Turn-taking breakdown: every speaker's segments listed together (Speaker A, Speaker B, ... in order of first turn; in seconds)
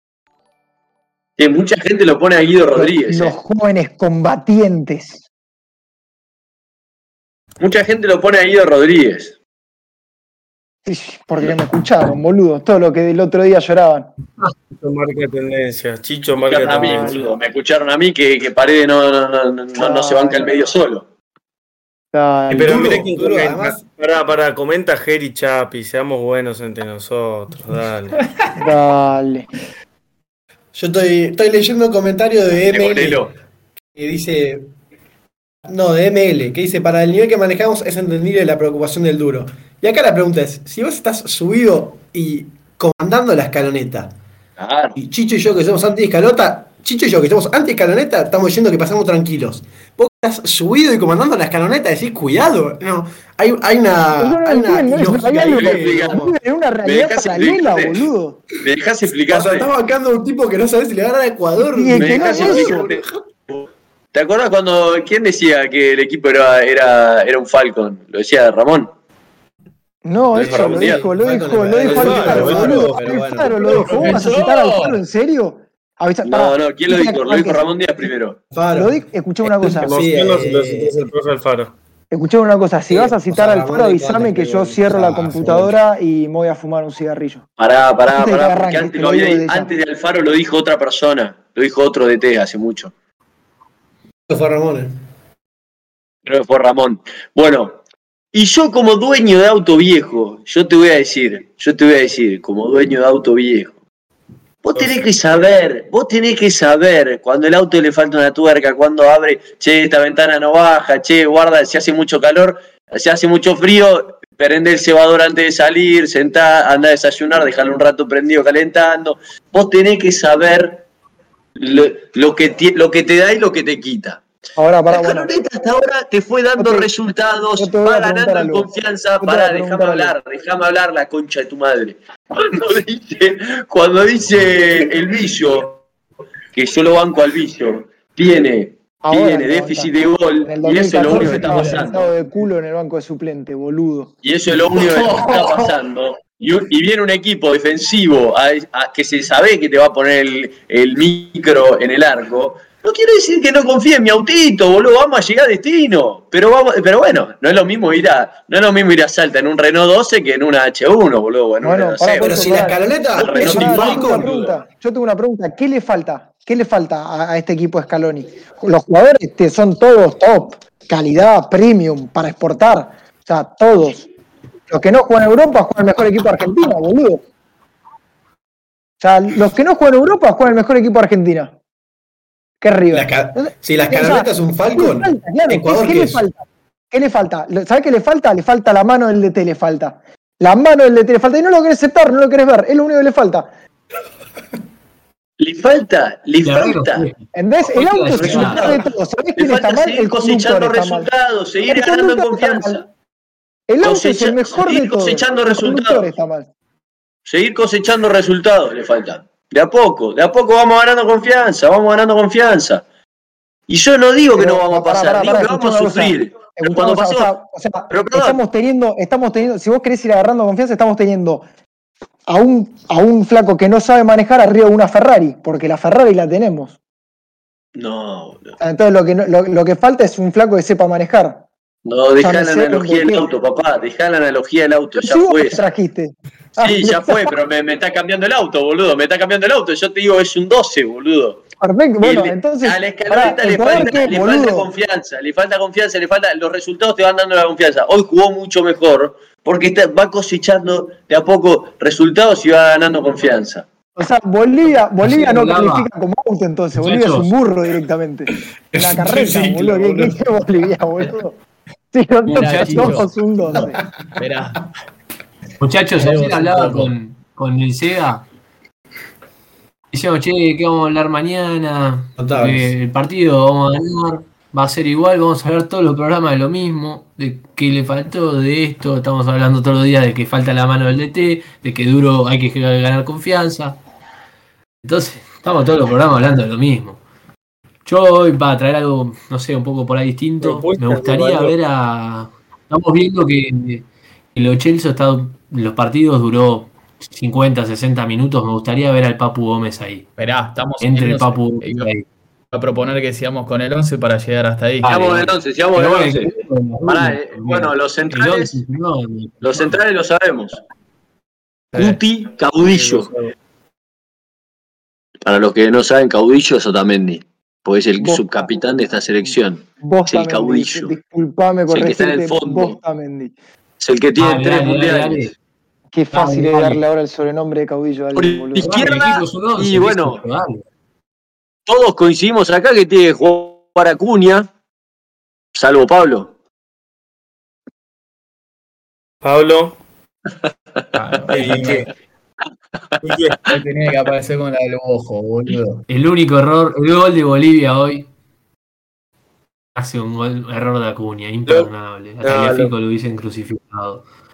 Speaker A: 1.4-3.4, 7.6-9.3, 16.5-21.0, 32.7-33.3, 44.6-45.0, 55.4-56.3, 56.8-58.1, 58.6-59.7, 62.0-68.9, 70.3-71.0, 76.2-78.4, 87.6-92.9, 96.2-97.8, 98.3-103.7, 104.6-120.8, 121.6-124.2, 124.9-135.8, 136.5-142.0, 144.2-164.6, 195.4-197.1, 198.1-198.8, 199.4-202.8, 203.8-206.1, 207.2-212.8, 213.7-217.3, 217.9-218.4, 227.7-228.6, 231.8-235.7, 236.6-241.4, 242.0-253.6, 304.8-308.6, 309.4-310.6, 311.7-313.1, 315.2-320.9, 321.7-322.8, 323.8-325.3, 328.1-330.2, 331.7-334.5, 335.5-336.3, 341.4-341.8
Speaker B: 2.7-5.2, 10.8-14.1, 16.6-17.2, 19.7-20.4, 22.1-23.0, 28.5-29.5, 54.2-58.4, 61.6-62.8, 70.0-77.7, 78.7-79.9, 82.1-87.4, 88.1-89.7, 124.6-125.4, 126.6-126.9, 127.6-128.7, 129.2-130.2, 139.0-139.9, 140.4-144.1, 161.6-174.1, 174.7-177.2, 179.0-181.5, 182.6-193.5, 197.3-201.1, 201.7-202.8, 203.7-206.5, 214.3-221.4, 222.3-226.8, 228.6-231.4, 232.2-233.3, 234.9-237.3, 241.6-244.7, 253.9-261.4, 261.9-263.8, 318.0-318.5, 319.2-323.3, 325.9-328.7
Speaker C: 14.7-17.3, 22.5-28.2, 71.8-73.1, 79.8-81.7, 290.4-291.5, 312.6-313.3, 339.2-339.8, 341.3-341.9, 343.0-343.4, 351.4-351.7, 352.2-352.7
Speaker D: 22.6-23.9, 30.7-33.3, 34.0-34.7, 35.6-44.1, 45.0-56.3, 59.3-63.2, 70.5-74.1, 78.5-79.0, 79.6-81.0, 82.9-85.8, 94.3-95.0, 162.2-164.3, 182.9-186.3, 258.7-260.4, 272.2-272.7
Speaker E: 73.7-75.0, 141.0-141.9, 262.3-263.1, 264.2-264.6, 265.9-266.9, 300.2-301.9, 302.5-305.4, 341.0-341.9, 343.4-345.9
Speaker F: 196.4-198.7, 255.0-255.9, 256.8-257.3, 262.3-263.1, 265.6-268.2, 269.9-283.8, 284.8-287.0, 287.8-300.1, 300.8-302.0, 305.7-309.8, 324.2-325.3, 326.1-326.8, 328.6-330.6, 341.0-341.7, 345.9-348.1, 349.7-354.1